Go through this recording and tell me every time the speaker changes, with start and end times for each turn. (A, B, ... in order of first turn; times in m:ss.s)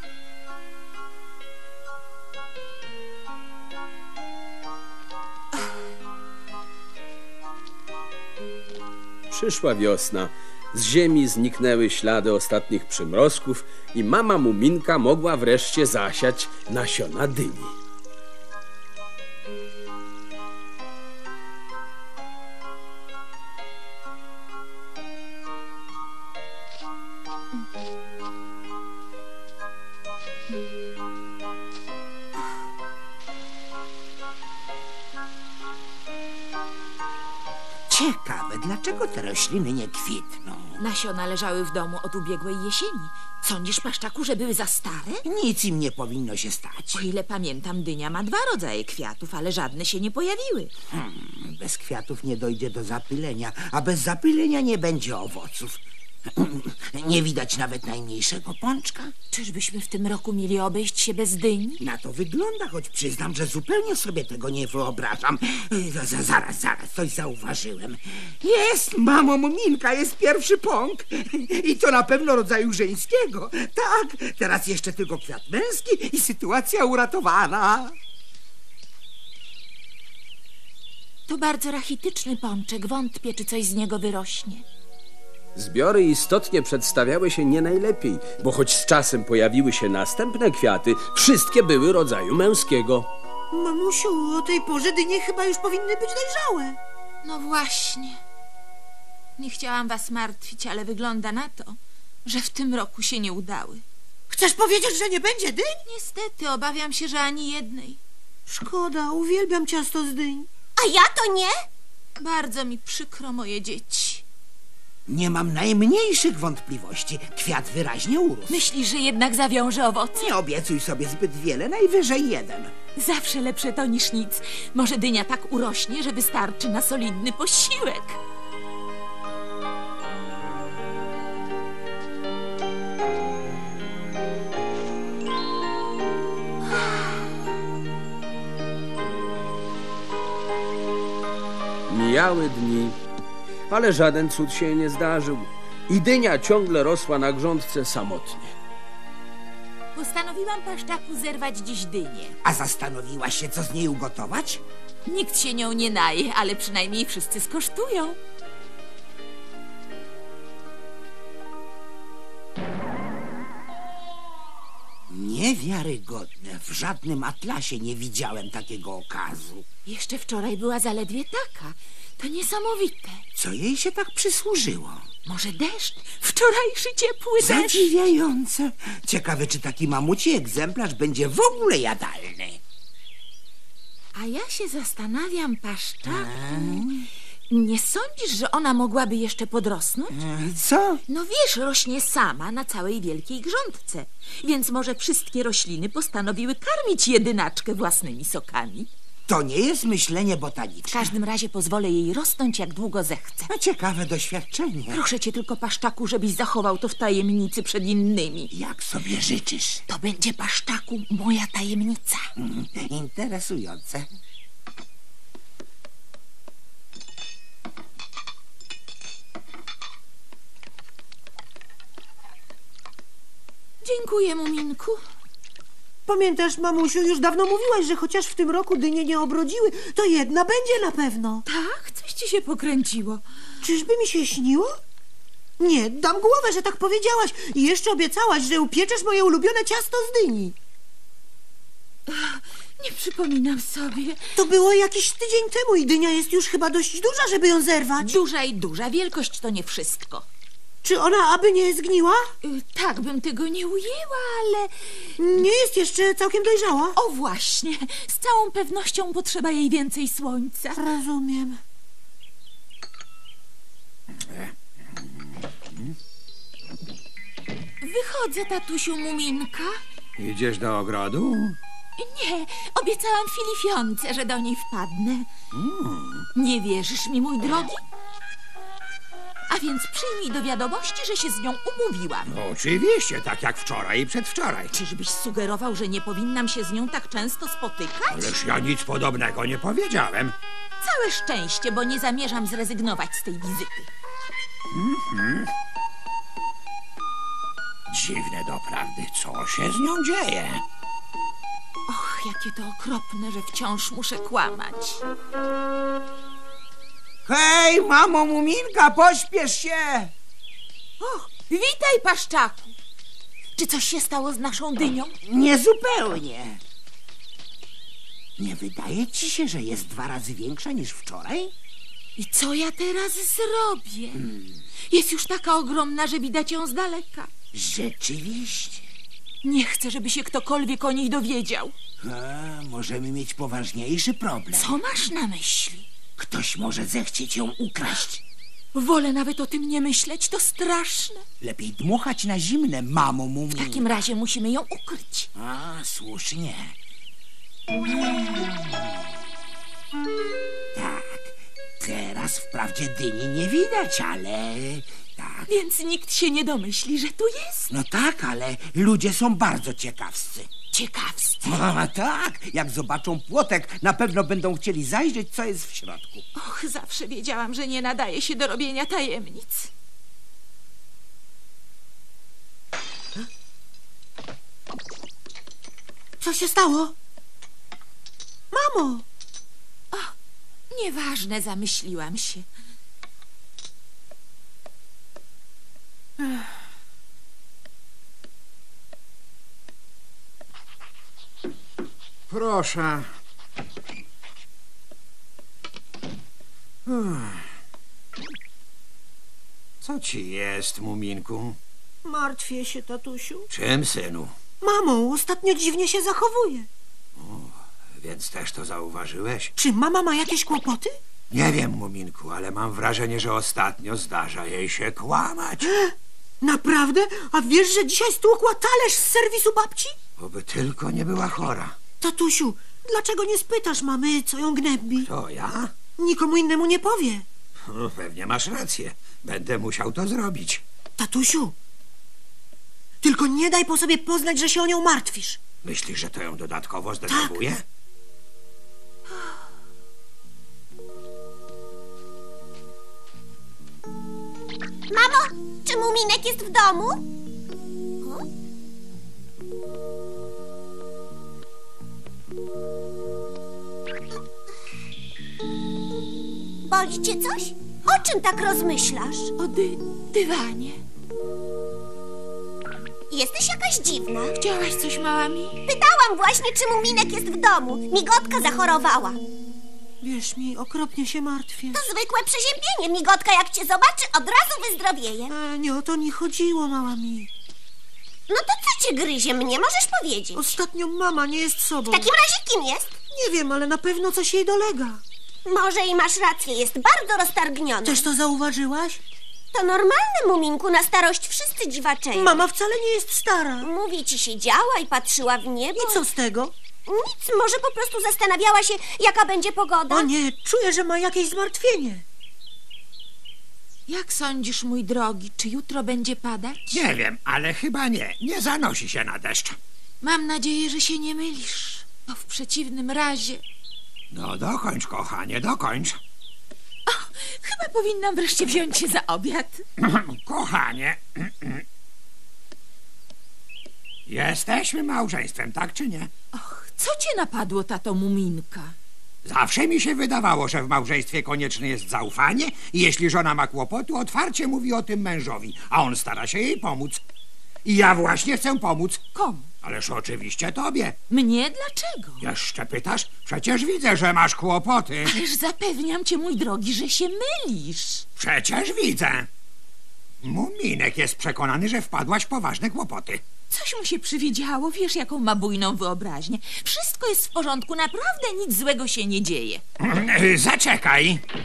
0:09.3-0:17.7 A
0:37.9-0:40.8 B
0:40.8-0:45.2 C
0:45.2-0:47.1 B
0:46.9-0:50.7 C
0:50.9-0:55.8 B
0:56.4-0:59.1 B
0:59.3-1:01.8 C
1:01.8-1:17.9 B
1:21.2-1:24.6 C
1:25.5-1:33.1 A
1:33.5-1:36.8 D
1:37.2-1:38.2 C
1:39.4-1:43.8 C
1:44.3-1:45.8 D
1:45.8-1:48.0 C
1:48.5-1:50.5 D
1:50.8-1:51.7 E
1:52.2-1:54.2 C
1:55.1-1:58.7 B
1:58.5-2:00.3 C
2:00.1-2:02.7 B
2:03.0-2:08.2 C
2:21.9-2:23.0 A
2:23.7-2:28.5 A
2:29.9-2:32.4 C
2:32.4-2:34.6 B
2:35.0-2:38.2 C
2:45.1-2:49.6 B
2:49.8-2:53.2 C
2:53.3-2:55.0 B
2:55.2-2:57.9 C
2:57.4-3:02.6 B
3:04.1-3:06.9 C
3:06.1-3:07.0 B
3:07.5-3:10.2 C
3:10.1-3:11.0 B
3:11.1-3:18.9 C
3:19.3-3:21.1 B
3:20.9-3:23.5 C
3:23.5-3:25.0 B
3:24.9-3:28.5 C
3:28.5-3:29.8 B
3:29.9-3:32.3 C
3:32.4-3:34.1 B
3:43.8-3:45.0 C
3:46.0-3:51.4 D
3:51.5-3:53.2 C
3:53.6-3:54.7 D
3:55.6-4:00.6 D
4:02.1-4:04.2 C
4:04.4-4:08.2 D
4:08.0-4:10.2 C
4:10.8-4:12.2 D
4:12.4-4:15.1 C
4:15.2-4:17.0 D
4:17.0-4:20.8 C
4:20.7-4:21.6 D
4:24.3-4:24.5 F
4:27.8-4:29.8 C
4:30.2-4:31.6 F
4:32.0-4:35.3 C
4:35.5-4:36.3 F
4:36.3-4:37.8 C
4:39.5-4:42.3 C
4:42.2-4:44.7 F
4:44.7-4:48.3 C
4:48.1-4:50.3 F
4:50.8-4:53.9 C
4:54.7-4:55.5 F
4:57.9-5:00.6 F
5:01.9-5:05.0 C
5:07.3-5:10.1 B
5:11.0-5:12.7 C
5:13.6-5:15.1 C
5:15.2-5:16.6 B
5:18.4-5:21.5 B
5:22.2-5:24.2 C
5:24.9-5:27.3 C
5:27.5-5:28.8 B
5:29.4-5:31.7 C
5:32.0-5:34.8 B
5:34.5-5:35.8 C
5:36.2-5:38.2 B
5:38.7-5:41.2 C
5:41.4-5:43.9 B
5:43.5-5:45.3 C
5:45.4-5:46.7 B
5:47.9-5:48.9 B
5:50.7-5:55.5 B
5:55.5-5:57.7 C
5:57.7-6:00.5 B
6:00.7-6:01.6 C
6:01.4-6:06.2 B
6:06.4-6:09.7 C
6:16.2-6:16.9 D
6:18.5-6:19.0 D
6:20.7-6:22.4 C
6:26.2-6:26.5 D
6:32.3-6:33.1 F
6:36.9-6:37.4 F
6:39.8-6:41.6 F
6:42.0-6:43.5 D
6:43.5-6:44.3 F
6:44.6-6:46.7 D
6:47.2-6:49.5 F
6:49.6-6:51.0 D
6:51.3-6:55.7 F
6:56.4-6:59.9 D
7:00.2-7:01.7 F
7:02.0-7:05.1 D
7:05.0-7:05.7 F
7:06.0-7:07.2 D
7:07.7-7:10.6 F
7:11.0-7:11.5 D
7:13.0-7:15.4 D
7:15.6-7:17.6 F
7:17.1-7:17.3 D
7:24.9-7:27.0 E
7:28.0-7:28.2 E
7:36.6-7:39.3 E
7:39.4-7:40.8 C
7:43.1-7:44.3 E
7:44.3-7:45.6 C
7:45.7-7:49.2 E
7:50.0-7:51.8 D
7:51.7-7:55.3 E
7:55.3-7:57.3 D
7:58.3-8:00.5 E
8:00.4-8:02.0 D
8:01.8-8:03.0 E
8:03.1-8:05.0 D
8:05.4-8:08.1 E
8:07.9-8:09.0 D
8:09.5-8:12.4 E
8:12.2-8:13.6 D
8:13.6-8:16.0 E
8:15.8-8:16.5 D
8:16.8-8:20.1 E
8:19.9-8:22.0 D
8:23.9-8:26.8 C
8:26.7-8:29.6 F
8:30.0-8:33.4 C
8:34.1-8:36.0 F
8:36.9-8:39.6 C
8:39.8-8:41.6 F
8:44.1-8:46.1 F
8:46.3-8:48.7 C
8:49.2-8:57.0 F
8:57.6-8:59.0 F
8:59.1-8:59.5 C
8:59.6-9:01.0 F
9:01.1-9:02.3 C
9:02.2-9:05.1 F
9:05.0-9:08.0 C
9:08.2-9:09.3 F
9:10.2-9:13.2 F
9:13.5-9:19.6 C
9:19.8-9:21.2 F